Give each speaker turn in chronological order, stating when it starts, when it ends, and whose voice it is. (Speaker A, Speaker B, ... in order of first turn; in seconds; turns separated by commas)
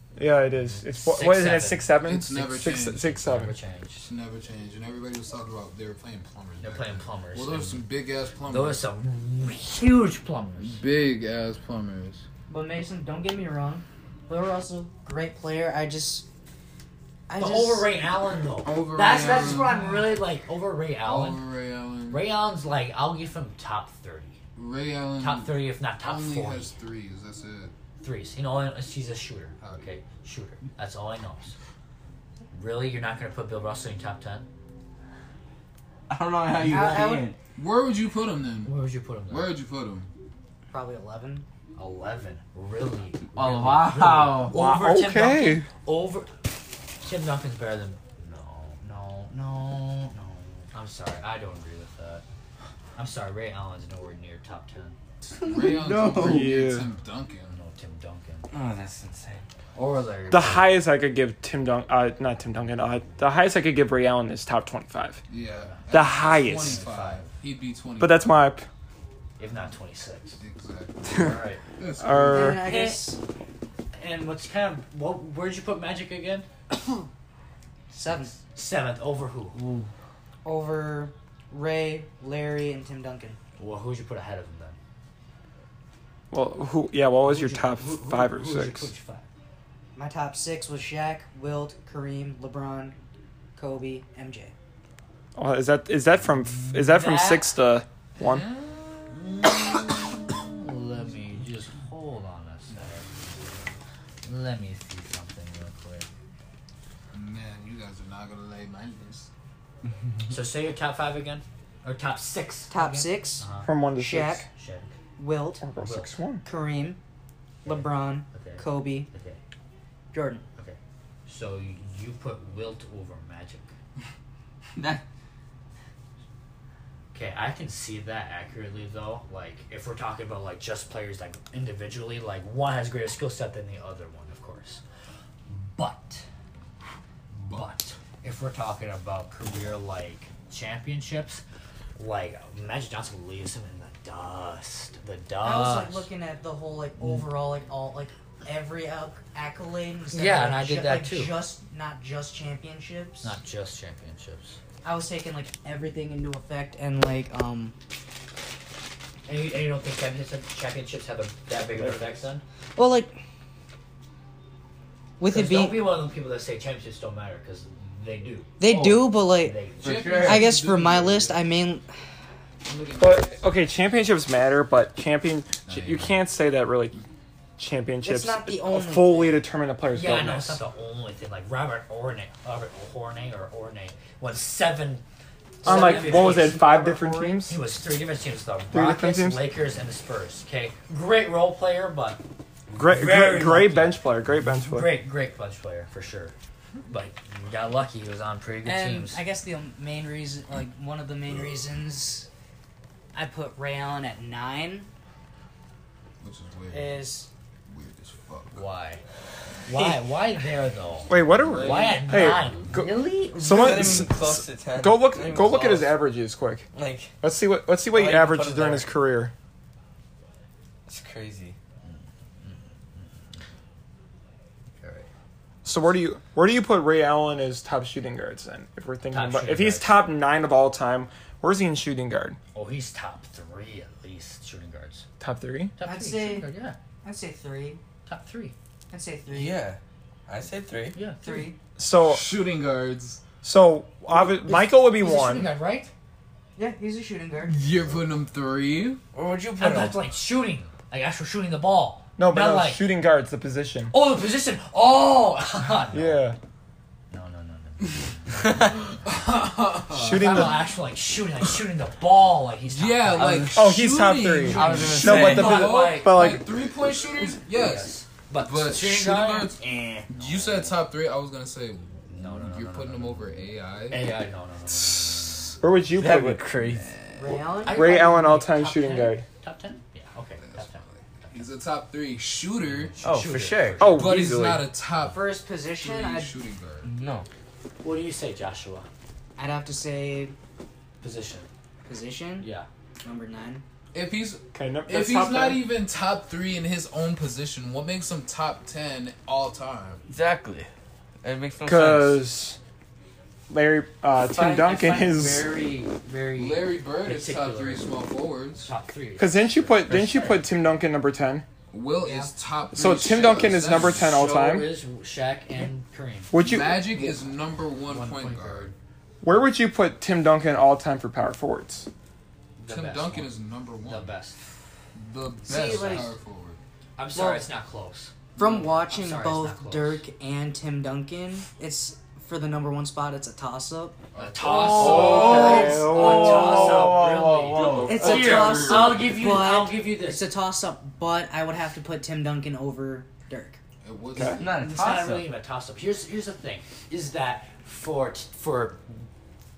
Speaker A: 0.1-3.5, Speaker B: 0.9-2.0, Speaker C: 2.0-3.2, Speaker B: 3.1-4.1, Speaker C: 4.0-8.8, Speaker B: 6.6-7.8, Speaker B: 8.4-10.8, Speaker C: 10.6-12.2, Speaker D: 12.5-16.2, Speaker D: 17.3-17.9, Speaker B: 17.4-21.4, Speaker C: 18.6-20.1, Speaker C: 21.0-22.2, Speaker B: 22.1-24.4, Speaker C: 24.6-27.7, Speaker B: 25.2-26.7, Speaker B: 28.0-31.6, Speaker C: 29.6-29.9, Speaker B: 32.5-34.5, Speaker E: 36.1-37.4, Speaker D: 36.6-37.2, Speaker B: 36.6-37.2, Speaker C: 37.5-38.7, Speaker B: 38.6-39.5, Speaker C: 39.3-40.1, Speaker D: 40.7-41.5, Speaker B: 41.8-46.3, Speaker E: 43.3-44.5, Speaker A: 44.5-45.7, Speaker B: 47.0-52.2, Speaker B: 53.0-55.0, Speaker E: 55.4-56.5, Speaker C: 55.4-57.5, Speaker A: 56.1-56.9, Speaker B: 57.5-58.5, Speaker E: 58.5-59.4, Speaker B: 59.7-60.8, Speaker A: 60.3-65.2, Speaker C: 65.3-68.3, Speaker B: 65.6-67.3, Speaker A: 65.9-66.8, Speaker A: 68.0-68.7, Speaker B: 69.4-70.4, Speaker C: 70.4-72.6, Speaker B: 71.1-71.6, Speaker A: 72.0-72.6, Speaker D: 72.3-73.2, Speaker B: 72.4-73.1, Speaker B: 73.9-76.5, Speaker D: 77.9-78.3, Speaker B: 78.3-79.6, Speaker E: 79.5-79.9, Speaker D: 80.4-83.4, Speaker B: 83.6-84.8, Speaker A: 86.3-88.9, Speaker B: 87.2-89.2, Speaker D: 89.9-93.0, Speaker D: 93.5-94.5, Speaker A: 95.3-98.4, Speaker B: 96.7-97.5, Speaker B: 98.2-103.6, Speaker B: 104.2-106.1, Speaker C: 107.1-109.3, Speaker B: 110.3-113.7, Speaker D: 112.7-114.5, Speaker A: 113.6-114.5, Speaker B: 114.5-114.9, Speaker D: 115.2-115.6, Speaker A: 115.6-116.4, Speaker B: 115.8-116.2, Speaker D: 116.4-117.0, Speaker D: 117.6-119.1, Speaker B: 117.6-119.4, Speaker D: 120.1-120.4, Speaker B: 120.5-123.7, Speaker E: 124.8-125.0, Speaker B: 127.1-134.8, Speaker B: 135.4-136.2, Speaker C: 137.4-137.6, Speaker B: 137.4-141.4, Speaker B: 141.9-146.1, Speaker D: 145.4-153.4, Speaker B: 150.1-151.4, Speaker B: 153.2-154.6, Speaker D: 154.8-157.8, Speaker B: 159.2-162.4, Speaker E: 161.7-162.1, Speaker D: 162.8-163.2, Speaker D: 165.2-165.8, Speaker B: 165.2-170.2, Speaker D: 168.6-169.5, Speaker E: 168.7-169.1, Speaker E: 169.8-170.5, Speaker C: 169.8-171.4, Speaker D: 170.1-171.9, Speaker C: 172.7-173.4, Speaker A: 173.0-177.0, Speaker C: 175.7-176.2, Speaker A: 177.6-180.6, Speaker D: 178.0-179.4, Speaker B: 179.9-185.0, Speaker B: 185.6-186.7, Speaker A: 185.6-187.6, Speaker D: 185.6-187.4, Speaker B: 187.4-196.3, Speaker A: 188.7-189.5, Speaker A: 192.7-194.9, Speaker B: 196.9-199.2, Speaker D: 198.6-202.3, Speaker D: 203.1-204.9, Speaker C: 206.2-207.1, Speaker D: 206.7-207.3, Speaker C: 207.7-208.6, Speaker B: 208.5-209.0, Speaker B: 209.7-214.0, Speaker A: 211.1-216.7, Speaker C: 211.4-212.7, Speaker E: 213.4-215.9, Speaker E: 216.7-217.1, Speaker A: 217.2-219.3, Speaker E: 217.9-218.9, Speaker E: 220.9-221.6, Speaker B: 221.8-223.1, Speaker B: 224.8-225.1, Speaker A: 225.6-232.4, Speaker B: 229.1-230.1, Speaker B: 232.5-235.1, Speaker A: 235.2-235.8, Speaker B: 235.8-236.8, Speaker D: 235.8-236.5, Speaker D: 237.0-237.8, Speaker B: 238.1-238.5, Speaker D: 238.9-239.6, Speaker E: 239.3-241.0, Speaker B: 240.9-241.4, Speaker D: 241.2-241.6, Speaker A: 241.8-242.2, Speaker C: 242.0-243.2, Speaker A: 243.4-245.5, Speaker B: 244.5-245.9, Speaker D: 246.6-247.6, Speaker C: 247.5-249.0, Speaker E: 249.1-250.0, Speaker B: 249.6-252.9, Speaker A: 252.2-253.9, Speaker B: 253.9-256.3, Speaker A: 255.9-256.4, Speaker B: 257.1-258.9, Speaker C: 258.9-260.6, Speaker A: 259.9-260.6, Speaker B: 260.1-263.6, Speaker C: 262.7-269.6, Speaker A: 263.5-266.5, Speaker B: 264.4-266.4, Speaker E: 264.5-265.6, Speaker B: 267.1-270.8, Speaker C: 270.1-274.0, Speaker B: 272.1-273.3, Speaker B: 273.9-275.6, Speaker C: 275.2-275.5, Speaker A: 275.6-276.5, Speaker E: 275.9-276.9, Speaker D: 277.2-279.1, Speaker B: 277.6-281.5, Speaker A: 277.7-279.2, Speaker C: 280.4-282.9, Speaker B: 282.6-284.1, Speaker E: 283.0-283.8, Speaker A: 283.8-284.7, Speaker C: 283.9-286.9, Speaker D: 285.0-286.3, Speaker E: 286.8-287.3, Speaker B: 287.8-288.9, Speaker D: 289.4-290.4, Speaker B: 291.0-291.5, Speaker D: 291.8-292.5, Speaker B: 292.4-292.7, Speaker D: 293.0-293.6, Speaker C: 293.9-300.0, Speaker A: 294.5-295.6, Speaker E: 300.1-300.7, Speaker E: 301.2-302.2, Speaker A: 301.6-302.6, Speaker A: 303.5-305.5, Speaker B: 304.1-307.9, Speaker C: 306.4-308.7, Speaker B: 308.6-310.4, Speaker A: 309.2-311.4, Speaker E: 309.9-310.3, Speaker C: 311.7-314.2, Speaker B: 312.0-312.3, Speaker A: 312.7-314.7, Speaker B: 313.7-316.4, Speaker A: 316.3-316.9, Speaker C: 316.4-318.7, Speaker B: 317.9-318.8, Speaker A: 319.2-321.9, Speaker B: 322.6-324.4, Speaker C: 322.7-324.1, Speaker C: 324.9-326.6, Speaker D: 325.4-326.1, Speaker B: 327.0-328.3, Speaker D: 327.1-327.4, Speaker D: 328.4-334.0, Speaker B: 328.9-330.0, Speaker C: 334.1-335.8, Speaker B: 334.1-340.3, Speaker E: 334.6-338.2, Speaker A: 334.7-337.2, Speaker D: 337.8-343.6, Speaker C: 338.0-339.1, Speaker A: 338.0-338.5, Speaker C: 343.8-344.6, Speaker E: 344.4-345.3, Speaker B: 344.4-348.8